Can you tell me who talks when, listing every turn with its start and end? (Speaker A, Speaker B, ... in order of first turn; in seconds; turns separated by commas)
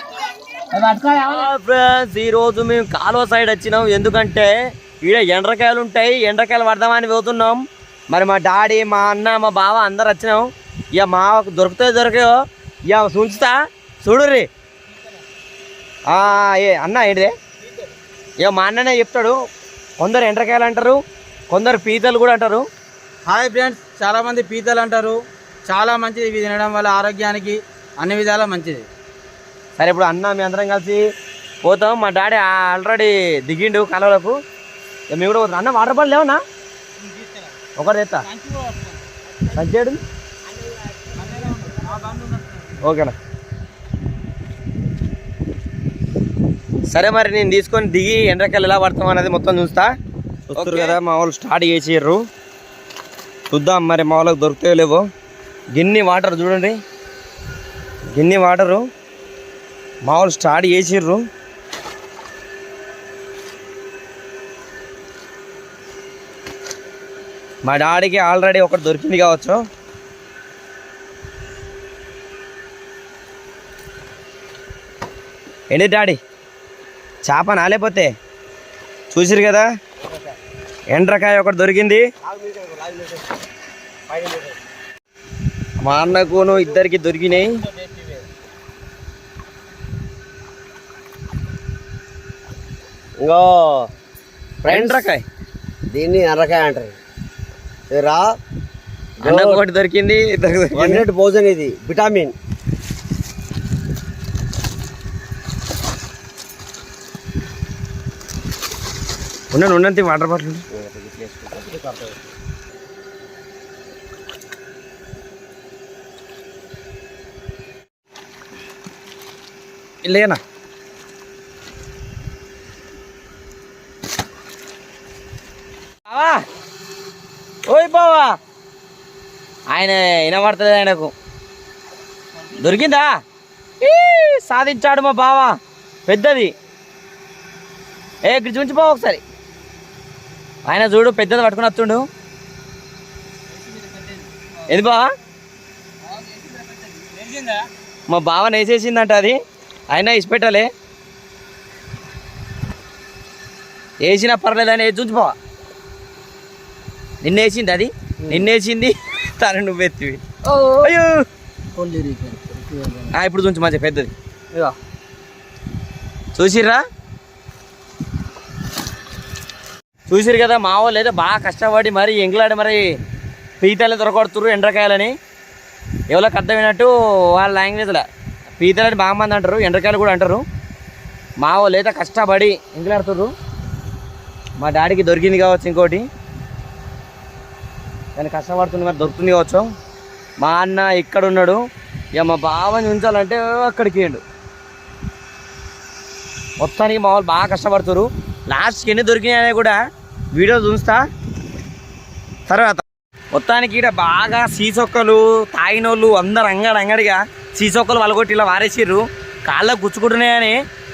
Speaker A: 1.0-12.3, Speaker A: 12.9-14.5, Speaker A: 16.1-17.3, Speaker A: 18.4-19.4, Speaker A: 20.0-21.0, Speaker A: 21.5-22.6, Speaker B: 23.3-28.9, Speaker A: 29.8-31.0, Speaker A: 31.6-34.4, Speaker A: 35.1-36.4, Speaker B: 37.0-37.6, Speaker A: 37.8-38.2, Speaker B: 38.2-39.0, Speaker A: 39.5-40.0, Speaker B: 41.1-42.8, Speaker A: 42.8-43.1, Speaker A: 46.9-49.9, Speaker B: 50.5-51.0, Speaker A: 50.5-52.2, Speaker A: 53.5-55.0, Speaker A: 55.8-56.8, Speaker A: 58.1-58.8, Speaker A: 60.0-61.2, Speaker A: 67.6-69.6, Speaker A: 75.7-76.2, Speaker A: 77.2-78.1, Speaker A: 79.1-79.7, Speaker C: 80.0-80.4, Speaker A: 80.9-82.0, Speaker C: 82.2-83.4, Speaker C: 84.1-84.6, Speaker A: 85.8-87.6, Speaker B: 87.6-88.2, Speaker C: 93.2-93.9, Speaker A: 94.6-95.2, Speaker C: 94.7-95.0, Speaker C: 95.9-97.0, Speaker C: 97.9-98.3, Speaker C: 99.2-99.6, Speaker A: 99.2-101.1, Speaker C: 100.8-102.3, Speaker A: 109.5-110.7, Speaker C: 110.7-112.2, Speaker A: 120.0-120.4, Speaker A: 126.1-126.4, Speaker A: 127.7-128.3, Speaker A: 129.7-131.1, Speaker A: 132.5-133.1, Speaker A: 133.8-135.6, Speaker A: 136.1-136.5, Speaker A: 138.2-139.2, Speaker A: 140.7-142.1, Speaker B: 143.5-144.5, Speaker A: 144.7-145.1, Speaker B: 146.0-147.7, Speaker A: 148.1-149.4, Speaker A: 149.9-150.7, Speaker A: 154.0-155.3, Speaker A: 157.2-160.2, Speaker B: 160.5-160.8, Speaker A: 160.8-161.2, Speaker B: 161.8-163.0, Speaker A: 163.1-164.1, Speaker A: 166.3-166.8, Speaker A: 170.1-172.9, Speaker A: 173.6-175.2, Speaker A: 176.1-180.4, Speaker A: 181.4-183.3, Speaker A: 184.6-186.1, Speaker A: 188.2-189.7, Speaker A: 190.4-191.6, Speaker A: 192.2-194.2, Speaker A: 196.6-199.8, Speaker A: 200.3-201.0, Speaker A: 202.5-210.6